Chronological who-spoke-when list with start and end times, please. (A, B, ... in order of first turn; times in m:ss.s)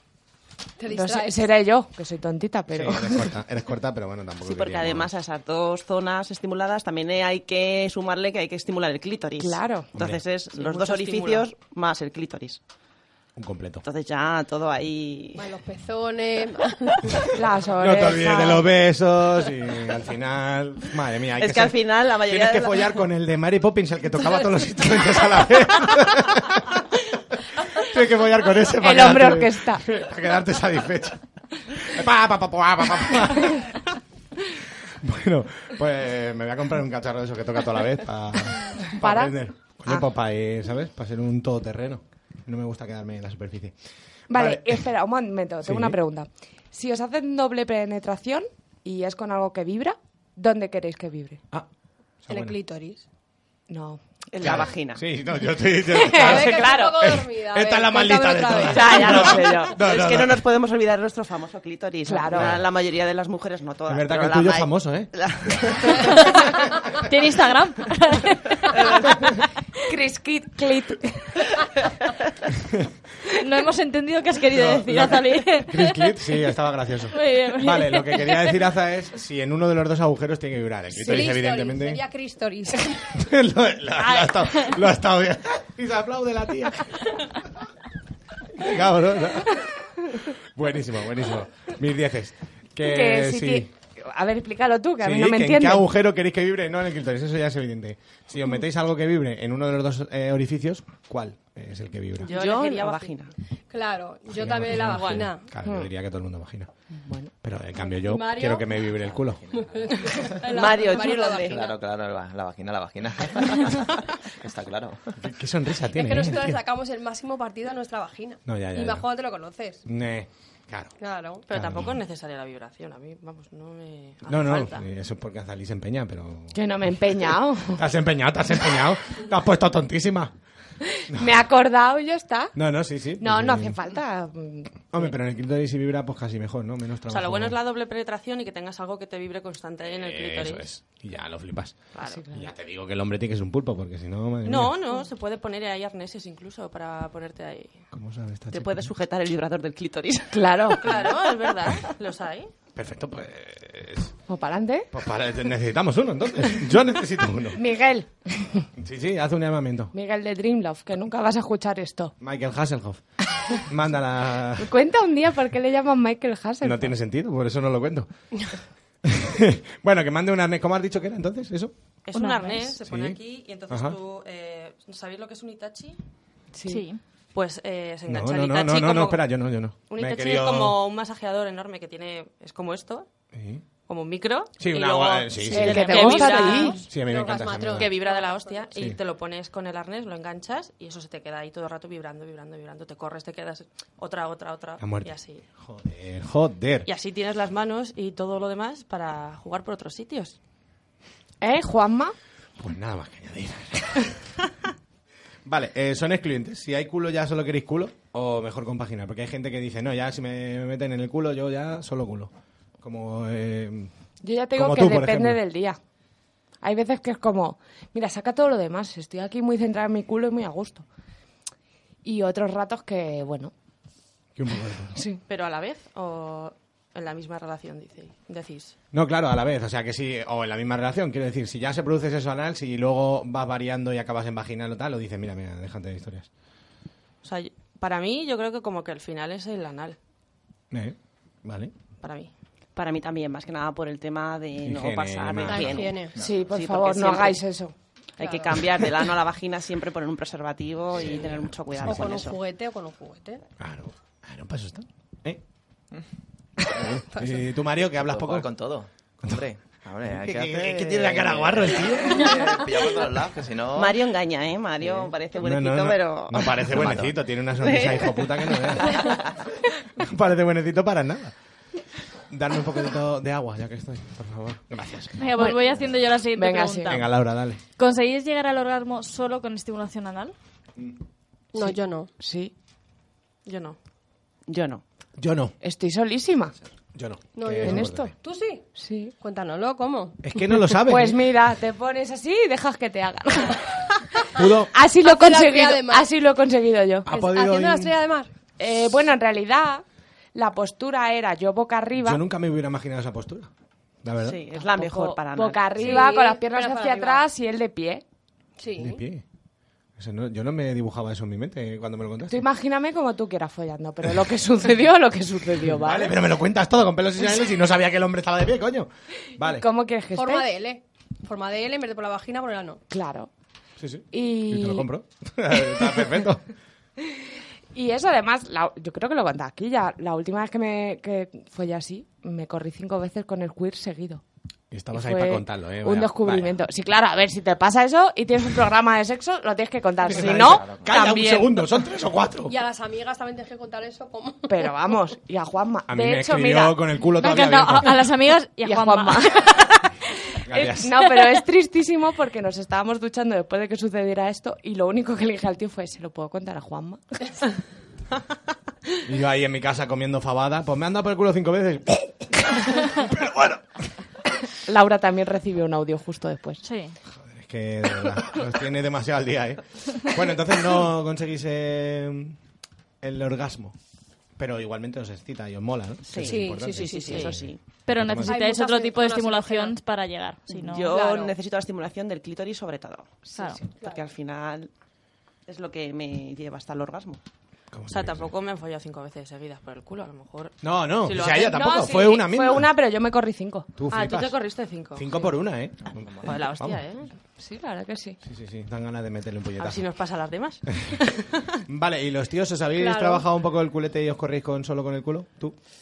0:00.8-0:01.5 A
0:00.9-0:03.3 B
0:02.7-0:05.1 C
0:04.4-0:12.6 D
0:09.4-0:09.9 B
0:10.0-0:10.2 C
0:10.9-0:11.4 A
0:13.4-0:13.8 C
0:13.8-0:15.5 D
0:15.4-0:17.1 A
0:17.3-0:18.7 B
0:17.8-0:33.8 C
0:21.4-0:23.0 D
0:28.8-0:29.8 B
0:34.9-0:43.8 C
0:38.8-0:39.4 B
0:44.3-0:44.8 C
0:44.3-0:51.4 B
0:45.6-0:46.0 C
0:52.2-0:52.6 C
0:52.3-0:53.0 A
0:53.7-0:54.0 B
0:54.3-0:55.0 D
0:54.4-1:00.4 C
0:55.9-0:56.3 B
0:56.0-0:59.3 A
0:56.4-0:57.0 D
0:58.7-1:06.7 D
1:02.1-1:02.5 B
1:02.3-1:02.6 C
1:03.9-1:05.1 C
1:07.0-1:08.8 E
1:08.7-1:09.1 D
1:09.9-1:11.5 B
1:13.4-1:16.4 E
1:14.5-1:22.0 C
1:17.1-1:18.6 E
1:20.9-1:23.1 A
1:23.1-1:27.2 C
1:24.1-1:24.7 E
1:28.5-1:29.6 C
1:30.2-1:33.7 C
1:32.8-1:35.9 B
1:35.0-1:42.3 C
1:42.2-1:43.1 F
1:42.3-1:43.3 D
1:43.7-1:45.5 A
1:44.3-1:46.7 C
1:44.8-1:45.3 F
1:47.0-1:47.3 B
1:47.4-1:49.4 C
1:47.9-1:51.7 A
1:50.4-1:51.6 D
1:51.5-1:55.0 G
1:55.2-1:56.6 C
1:55.9-1:59.8 A
1:58.5-1:59.1 C
1:59.9-2:00.9 C
2:01.0-2:01.4 A
2:01.5-2:04.8 F
2:01.5-2:02.0 C
2:04.3-2:10.3 C
2:06.5-2:07.8 B
2:11.0-2:12.5 B
2:11.1-2:11.4 C
2:12.6-2:13.8 C
2:13.2-2:14.9 B
2:14.9-2:17.6 C
2:17.1-2:20.7 F
2:19.9-2:24.7 C
2:22.0-2:22.2 F
2:22.0-2:22.5 B
2:24.4-2:27.8 F
2:27.9-2:28.9 C
2:28.5-2:31.5 D
2:30.3-2:30.8 B
2:30.8-2:32.5 F
2:32.8-2:34.1 C
2:34.3-2:34.9 B
2:34.9-2:37.6 C
2:37.6-2:38.7 B
2:38.8-2:39.9 C
2:39.9-2:42.1 B
2:42.2-2:44.7 C
2:44.6-2:46.9 B
2:46.6-2:48.1 C
2:49.0-2:51.7 C
2:52.1-2:56.0 F
2:52.1-2:52.7 E
2:52.8-2:53.2 C
2:53.7-2:54.0 C
2:56.5-2:56.8 B
2:56.7-2:57.0 E
2:57.3-2:59.2 F
2:58.1-3:00.8 C
2:59.9-3:03.1 F
3:03.3-3:03.6 C
3:03.8-3:06.8 F
3:04.6-3:06.1 C
3:05.5-3:06.8 B
3:05.7-3:06.8 E
3:06.9-3:07.9 C
3:07.0-3:08.8 A
3:07.7-3:15.4 F
3:14.8-3:16.9 C
3:16.9-3:20.4 F
3:21.4-3:22.2 B
3:22.6-3:24.1 C
3:25.4-3:33.9 C
3:34.2-3:35.8 B
3:34.6-3:35.4 C
3:36.6-3:40.8 B
3:42.0-3:43.5 B
3:44.4-3:45.0 C
3:45.0-3:45.2 B
3:45.3-3:48.8 F
3:48.9-3:56.3 C
3:57.2-4:00.0 F
4:00.7-4:01.7 C
4:02.0-4:02.3 F
4:02.8-4:07.4 D
4:04.6-4:06.3 C
4:05.5-4:06.1 A
4:06.2-4:07.7 B
4:08.2-4:12.4 D
4:08.2-4:08.5 A
4:11.0-4:12.2 C
4:11.8-4:13.4 A
4:13.6-4:15.4 C
4:16.7-4:18.5 C
4:17.9-4:24.0 G
4:20.0-4:22.7 C
4:23.7-4:26.6 D
4:24.8-4:25.1 G
4:25.4-4:29.2 C
4:26.7-4:27.1 G
4:27.6-4:29.1 D
4:30.0-4:31.4 C
4:32.3-4:35.2 C
4:35.2-4:37.1 E
4:36.4-4:37.0 B
4:36.8-4:37.6 C
4:37.8-4:40.4 E
4:41.5-4:42.1 A
4:41.6-4:42.5 B
4:43.5-4:43.8 F
4:44.5-4:44.8 D
4:45.2-4:45.6 C
4:45.6-4:46.5 B
4:47.0-4:48.1 C
4:47.4-4:48.7 A
4:47.6-4:48.2 B
4:48.8-4:49.2 B
4:49.2-4:50.2 A
4:50.2-4:51.2 C
4:50.8-4:53.9 B
4:54.3-4:54.7 C
4:54.7-4:57.1 B
4:55.0-4:56.1 A
4:57.1-4:58.0 C
4:57.1-4:58.3 A
4:58.6-4:59.8 B
5:00.4-5:02.2 B
5:02.0-5:03.5 C
5:04.0-5:04.4 C
5:04.2-5:06.0 D
5:04.5-5:08.0 B
5:05.8-5:07.2 A
5:08.6-5:09.0 A
5:08.8-5:09.2 C
5:10.0-5:12.4 C
5:12.3-5:16.2 B
5:15.6-5:19.6 C
5:19.4-5:20.5 B
5:20.2-5:22.8 A
5:22.9-5:23.3 B
5:23.8-5:26.4 C
5:24.1-5:24.9 B
5:27.1-5:34.2 B
5:34.7-5:36.6 C
5:34.9-5:41.6 B
5:40.1-5:42.6 C
5:40.2-5:41.0 G
5:42.5-5:44.7 A
5:44.5-5:46.8 B
5:45.9-5:48.1 C
5:47.2-5:49.7 E
5:48.6-5:57.3 B
5:50.5-5:51.0 C
5:59.0-6:03.6 C
6:04.7-6:06.6 B
6:06.6-6:07.0 E
6:07.3-6:12.4 C
6:13.0-6:13.8 C
6:14.4-6:18.3 C
6:16.1-6:17.6 D
6:16.2-6:17.3 A
6:17.9-6:20.9 E
6:18.3-6:19.8 A
6:20.5-6:23.2 D
6:20.9-6:21.3 A
6:23.3-6:23.6 B
6:23.4-6:23.6 E
6:23.8-6:24.7 D
6:25.5-6:27.2 D
6:27.7-6:28.3 C
6:27.9-6:31.9 F
6:30.6-6:32.7 C
6:31.3-6:33.7 B
6:33.8-6:34.4 C
6:33.9-6:35.3 F
6:34.9-6:36.8 C
6:36.2-6:37.1 F
6:37.4-6:38.2 B
6:38.2-6:39.8 C
6:39.6-6:41.3 F
6:40.7-6:41.0 C
6:41.7-6:45.6 C
6:42.8-6:43.2 A